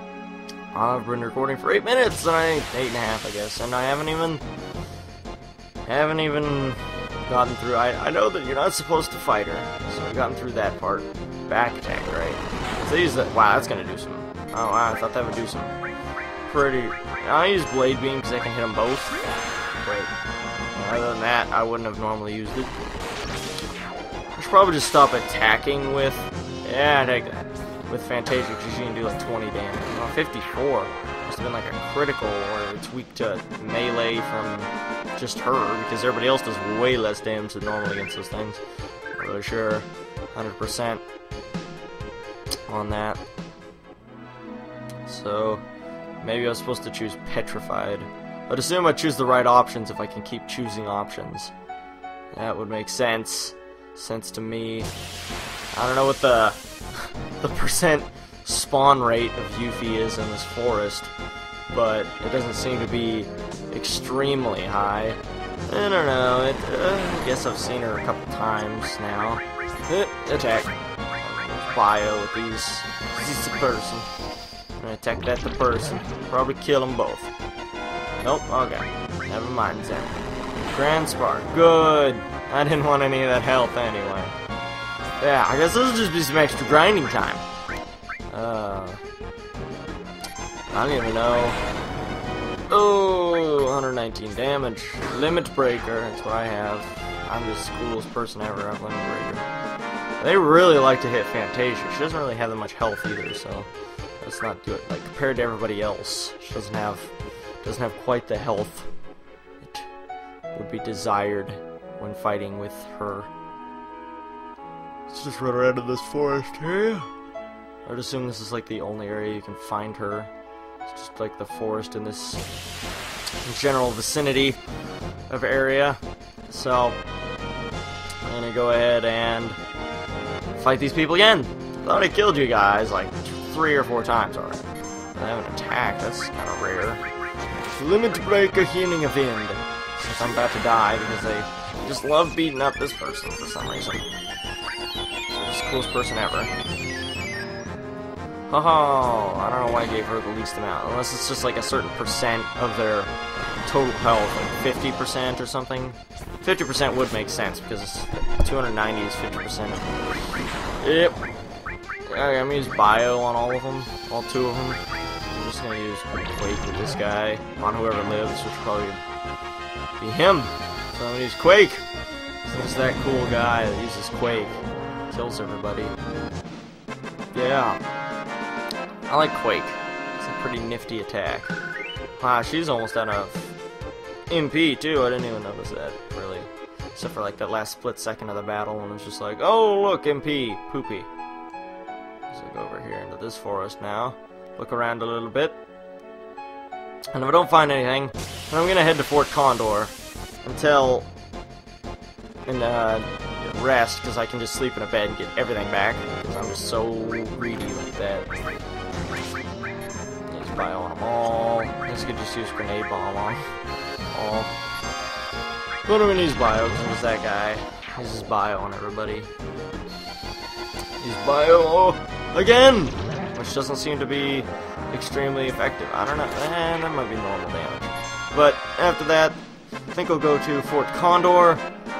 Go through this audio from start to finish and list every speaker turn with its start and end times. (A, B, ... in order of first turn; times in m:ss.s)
0:00.7-0:04.4 A
0:05.9-0:15.7 A
0:16.5-0:20.1 A
0:20.7-0:22.7 A
0:24.4-0:38.6 A
0:39.1-0:41.0 A
0:42.7-0:43.2 A
0:45.0-0:45.6 A
0:46.2-0:51.5 A
0:52.3-0:54.9 A
0:55.7-1:01.1 A
1:01.7-1:14.1 A
1:14.8-1:17.3 A
1:18.2-1:20.1 A
1:20.7-1:24.4 A
1:25.2-1:27.4 A
1:28.3-1:29.0 A
1:30.7-1:31.6 A
1:32.7-1:39.4 A
1:40.2-1:43.7 A
1:44.2-1:47.1 A
1:47.6-1:48.9 A
1:49.6-1:49.9 A
1:50.5-1:53.3 A
1:55.1-1:57.1 A
1:57.9-2:00.3 A
2:00.8-2:02.4 A
2:03.4-2:04.6 A
2:05.3-2:07.0 A
2:08.2-2:09.6 A
2:10.6-2:14.6 A
2:15.1-2:17.0 A
2:17.8-2:24.1 A
2:25.3-2:26.5 A
2:28.5-2:39.9 A
2:40.8-2:41.2 A
2:42.1-2:49.0 A
2:50.0-2:51.8 A
2:52.4-2:56.0 A
2:57.3-2:57.8 A
2:59.1-3:01.6 A
3:02.2-3:03.5 A
3:04.3-3:11.1 A
3:12.3-3:15.6 A
3:17.1-3:19.9 A
3:20.4-3:21.1 A
3:22.5-3:28.3 A
3:30.3-3:33.4 A
3:34.1-3:34.5 A
3:35.9-3:39.3 A
3:41.0-3:51.6 A